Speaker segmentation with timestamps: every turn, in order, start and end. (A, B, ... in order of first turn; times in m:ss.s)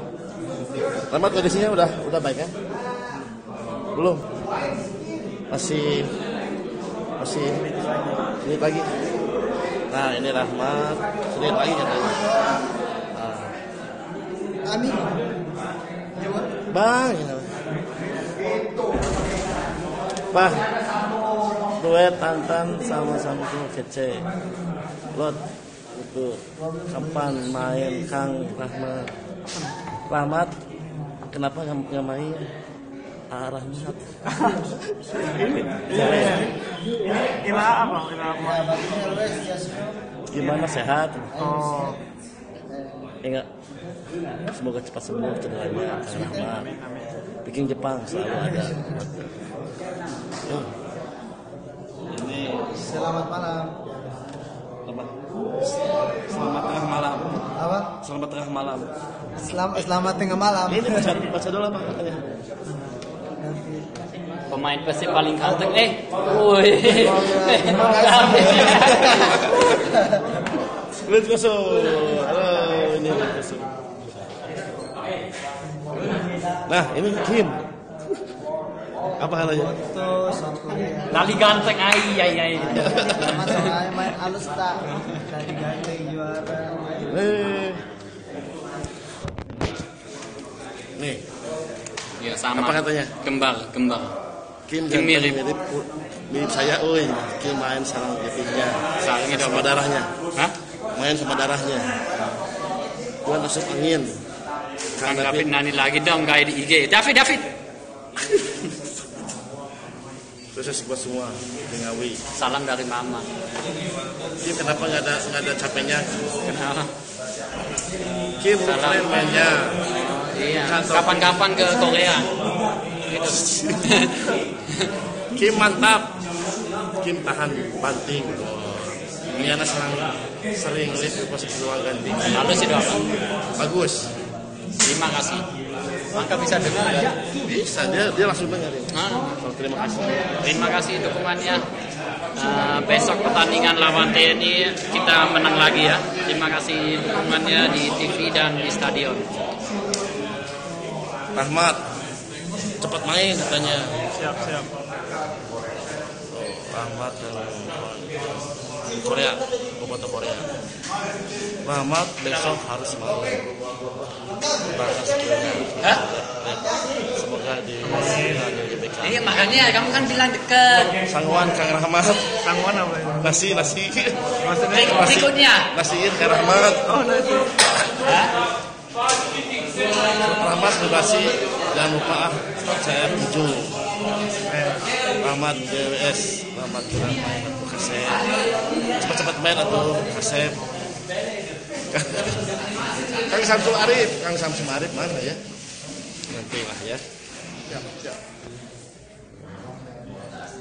0:01.1-0:02.5 A
0:03.9-0:04.3 A
0:05.5-0:06.1 A
0:07.2-0:07.7 A
0:08.4-0:08.9 A
0:09.9-0:12.2 A
0:13.1-0:13.6 A
0:14.6-0:15.2 B
0:16.2-0:16.6 B
0:16.7-0:17.5 A
0:20.3-0:20.7 A
0:21.8-0:24.3 A
0:25.1-0:29.1 A
0:30.1-0:30.6 A
0:31.3-0:32.5 A
0:33.3-0:34.1 A
0:35.2-0:36.5 A
0:35.6-0:36.5 C
0:37.0-0:39.0 C
0:38.9-0:39.9 B
0:40.3-0:41.4 A
0:41.4-0:42.0 C
0:43.2-0:43.5 A
0:44.5-0:46.7 A
0:46.4-0:47.1 C
0:47.4-0:49.2 A
0:50.4-0:50.7 A
0:52.1-0:52.9 A
0:52.9-0:53.8 B
0:54.8-0:58.9 A
0:57.6-0:57.9 B
0:59.4-1:01.0 B
1:00.7-1:02.3 A
1:03.5-1:03.8 B
1:04.5-1:09.4 D
1:07.1-1:08.4 B
1:08.4-1:09.8 A
1:11.0-1:13.7 A
1:16.6-1:17.6 A
1:19.2-1:19.7 A
1:19.7-1:21.1 B
1:21.1-1:24.0 D
1:22.6-1:27.0 B
1:22.7-1:23.3 A
1:27.1-1:27.8 A
1:31.0-1:31.2 A
1:32.2-1:34.1 D
1:32.5-1:33.1 A
1:34.7-1:40.1 A
1:34.9-1:35.4 D
1:39.0-1:40.6 D
1:40.9-1:41.9 A
1:43.2-1:44.2 A
1:45.0-1:45.5 A
1:45.0-1:47.5 D
1:50.5-1:52.2 A
1:52.3-1:53.3 D
1:54.4-1:56.2 A
1:56.4-1:56.9 D
1:58.4-1:59.8 A
1:58.6-2:02.3 D
2:00.6-2:01.5 A
2:03.1-2:04.9 D
2:03.3-2:04.1 A
2:05.3-2:06.2 A
2:07.0-2:12.6 A
2:12.2-2:13.0 D
2:13.6-2:14.1 A
2:14.8-2:15.4 D
2:16.1-2:17.2 D
2:17.4-2:20.3 A
2:18.9-2:19.4 D
2:20.4-2:21.6 D
2:22.4-2:29.3 D
2:31.3-2:31.8 A
2:32.8-2:34.0 A
2:34.1-2:34.7 C
2:36.3-2:38.2 A
2:38.9-2:40.5 A
2:41.6-2:43.5 A
2:44.7-2:50.2 A
2:47.9-2:48.4 C
2:49.0-2:51.0 D
2:51.0-2:52.4 A
2:52.4-2:53.4 C
2:53.2-2:54.3 A
2:54.4-2:55.1 C
2:54.7-2:55.7 D
2:54.9-2:57.0 A
2:56.9-2:57.6 C
2:58.0-2:58.3 D
3:00.1-3:03.8 A
3:05.2-3:08.3 A
3:09.0-3:10.6 A
3:11.9-3:12.5 A
3:13.1-3:15.4 A
3:16.3-3:17.0 A
3:17.7-3:18.1 C